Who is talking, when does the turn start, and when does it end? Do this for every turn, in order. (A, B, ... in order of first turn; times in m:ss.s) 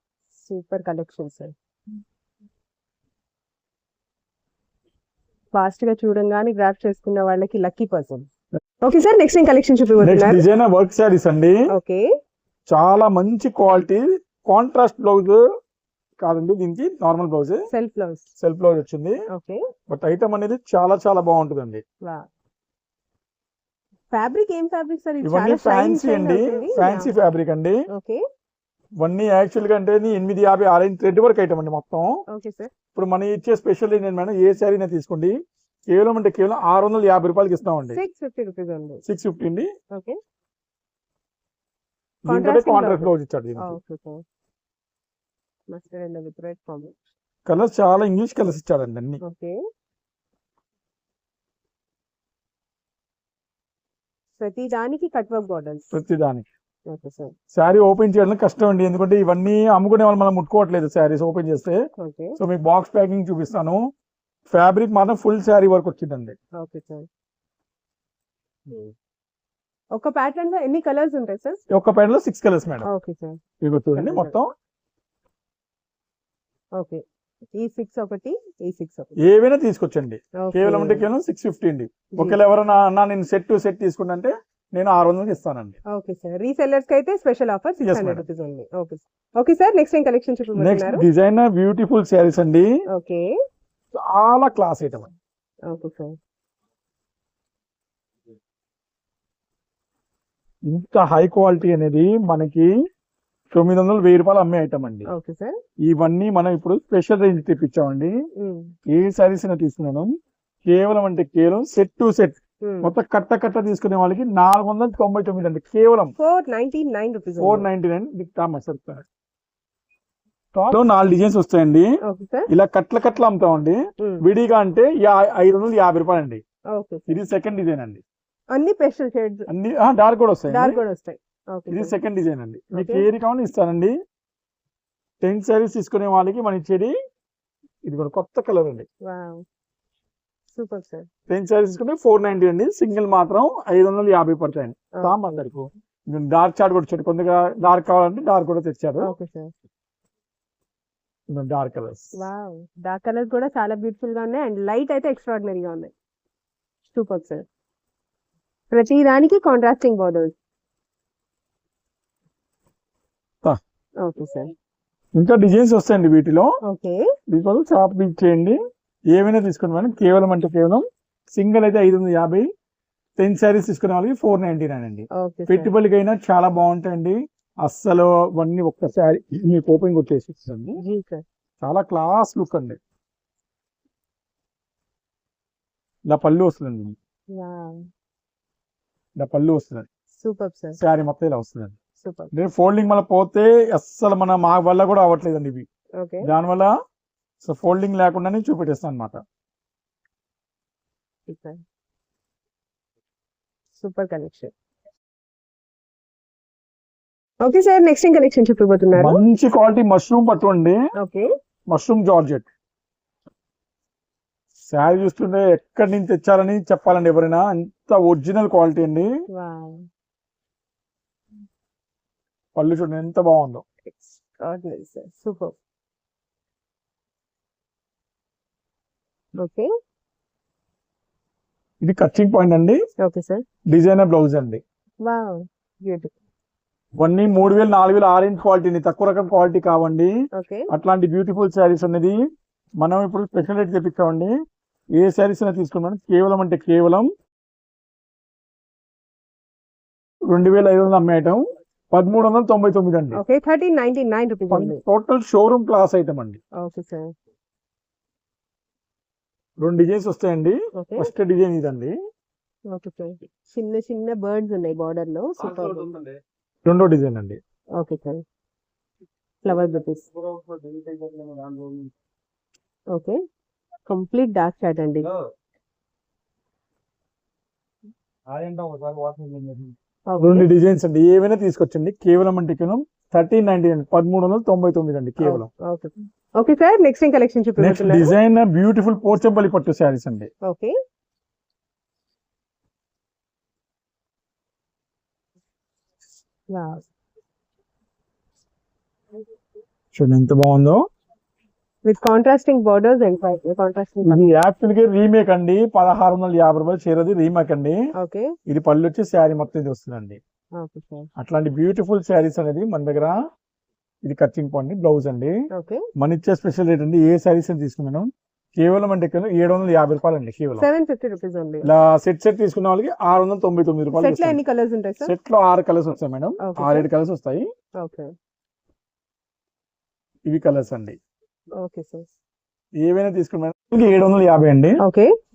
0:00.4-0:01.5 A
0:05.5-0:08.3 A
0:08.8-0:10.4 A
0:10.0-0:11.6 B
0:11.7-0:12.0 A
0:12.7-0:15.4 B
0:16.2-0:17.6 B
0:17.7-0:18.3 A
0:18.4-0:19.2 B
0:19.3-0:19.6 A
0:19.9-0:21.8 B
0:24.1-0:27.1 A
0:25.2-0:27.8 B
0:27.9-0:28.2 A
0:29.0-0:32.2 B
0:32.3-0:32.7 A
0:32.9-0:35.3 B
0:35.9-0:38.0 B
0:37.9-0:39.0 A
0:39.0-0:39.7 B
0:42.2-0:43.8 B
0:42.3-0:44.2 A
0:45.7-0:46.9 A
0:47.5-0:49.2 B
0:49.2-0:49.6 A
0:54.4-0:55.8 A
0:55.9-0:56.4 B
0:56.9-0:57.3 A
0:57.5-1:01.8 B
1:02.0-1:02.4 A
1:02.4-1:03.8 B
1:04.5-1:06.4 B
1:06.6-1:07.1 A
1:10.0-1:11.6 A
1:11.7-1:12.9 B
1:12.8-1:13.4 A
1:13.6-1:14.5 B
1:13.9-1:14.4 A
1:17.6-1:19.1 A
1:19.2-1:25.8 B
1:20.4-1:21.0 A
1:26.0-1:31.0 A
1:27.8-1:28.2 B
1:30.6-1:32.7 B
1:32.9-1:33.3 A
1:34.0-1:35.1 B
1:35.7-1:36.1 A
1:40.7-1:42.7 B
1:43.5-1:45.1 B
1:45.1-1:45.6 A
1:45.9-1:48.1 B
1:48.4-1:48.7 A
1:48.9-1:50.1 B
1:50.7-1:56.1 B
1:52.6-1:52.9 A
1:56.2-1:57.7 A
1:57.4-1:59.1 B
2:00.6-2:01.9 B
2:02.0-2:02.4 A
2:02.5-2:06.4 B
2:06.8-2:07.2 A
2:07.1-2:08.0 B
2:08.5-2:09.5 A
2:09.5-2:10.8 B
2:10.5-2:11.9 A
2:11.7-2:14.0 B
2:12.8-2:13.1 A
2:15.2-2:16.9 B
2:17.9-2:18.9 B
2:19.1-2:19.4 A
2:20.6-2:21.1 A
2:21.3-2:29.1 B
2:29.0-2:29.5 A
2:31.3-2:32.2 B
2:32.2-2:35.9 A
2:36.9-2:37.4 A
2:38.7-2:40.3 A
2:44.0-2:44.5 A
2:45.2-2:46.5 B
2:46.7-2:47.0 A
2:47.3-2:48.6 B
2:49.1-2:52.5 B
2:53.2-3:00.8 B
2:55.2-2:55.7 A
3:00.8-3:01.2 A
3:01.6-3:02.8 B
3:06.1-3:07.0 B
3:07.3-3:07.7 A
3:09.2-3:09.9 B
3:10.2-3:10.8 A
3:10.8-3:11.8 B
3:12.0-3:12.3 A
3:12.3-3:15.7 B
3:16.0-3:16.3 A
3:16.2-3:16.7 B
3:17.4-3:19.2 B
3:21.3-3:21.6 A
3:23.8-3:24.5 A
3:27.4-3:29.2 A
3:29.0-3:30.8 B
3:31.7-3:32.5 B
3:34.7-3:39.1 B
3:39.3-3:39.9 A
3:42.6-3:43.6 B
3:43.8-3:45.5 A
3:49.4-3:49.7 A
3:51.8-3:52.8 B
3:53.0-3:53.4 A
3:53.7-3:54.6 B
3:55.0-3:56.1 A
3:57.0-4:00.1 B
4:00.4-4:00.7 A
4:00.7-4:02.2 B
4:02.8-4:04.3 B
4:05.0-4:07.1 B
4:10.3-4:13.2 B
4:13.1-4:14.8 A
4:14.5-4:16.4 B
4:16.6-4:17.1 A
4:19.6-4:22.0 B
4:20.8-4:21.1 A
4:22.7-4:25.9 A
4:25.4-4:27.4 B
4:27.8-4:28.2 A
4:29.4-4:30.1 A
4:30.2-4:31.9 B
4:33.9-4:35.1 A
4:38.3-4:45.5 B
4:40.1-4:40.5 A
4:45.2-4:48.1 A
4:47.6-4:50.3 B
4:50.5-4:50.8 A
4:56.5-4:56.8 A
4:59.9-5:00.8 B
5:01.9-5:04.2 A
5:04.0-5:07.8 B
5:08.0-5:08.3 A
5:08.5-5:10.2 B
5:10.6-5:11.1 A
5:11.2-5:13.2 B
5:14.0-5:15.3 B
5:15.6-5:15.8 A
5:16.0-5:20.7 B
5:20.6-5:21.7 A
5:21.6-5:24.4 B
5:24.0-5:25.1 A
5:25.0-5:27.4 B
5:26.4-5:26.9 A
5:30.3-5:31.0 B
5:31.6-5:32.1 A
5:32.8-5:34.8 B